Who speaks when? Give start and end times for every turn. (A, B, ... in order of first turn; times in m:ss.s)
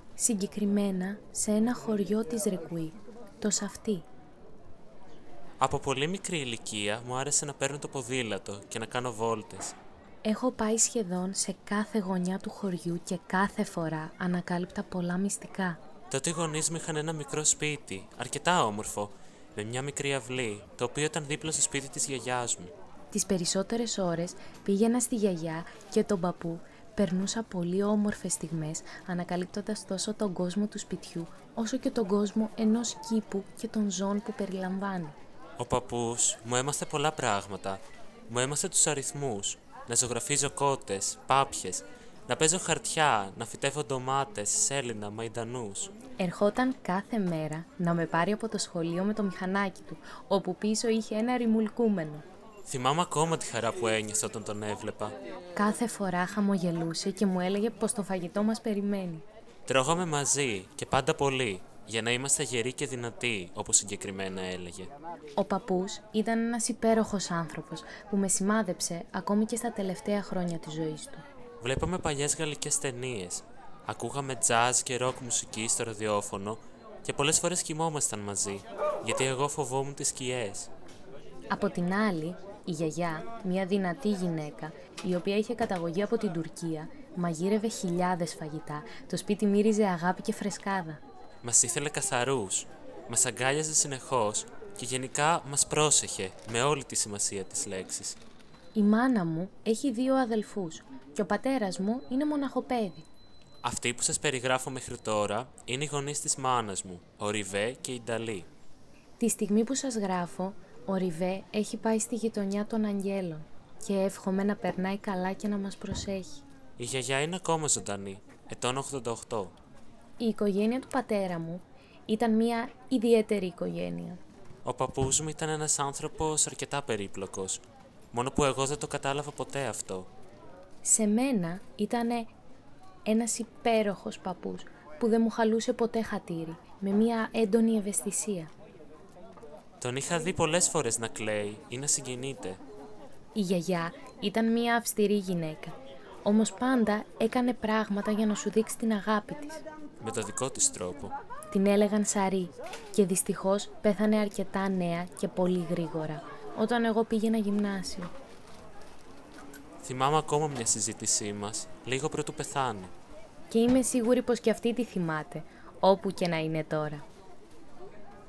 0:00.2-0:04.0 A
0:05.6-0:09.8 B
0:10.2-0:15.8 A
0:16.1-0:22.7 B
0:23.1-0:35.2 A
0:35.6-0:45.9 B
0:46.2-0:52.2 A
0:52.6-0:55.2 B
0:55.5-0:59.2 A
0:59.7-1:04.9 B
1:05.4-1:11.2 A
1:11.6-1:20.7 B
1:21.5-1:31.0 A
1:31.4-1:38.2 B
1:38.7-1:43.1 A
1:43.6-1:48.5 B
1:49.2-1:56.4 A
1:56.8-1:59.5 B
2:00.2-2:04.2 A
2:04.6-2:10.1 B
2:10.8-2:12.3 A
2:13.0-2:18.5 A
2:19.8-2:22.6 B
2:23.3-2:29.6 A
2:30.0-2:31.1 B
2:31.5-2:38.1 A
2:39.8-2:42.9 B
2:43.5-2:47.0 A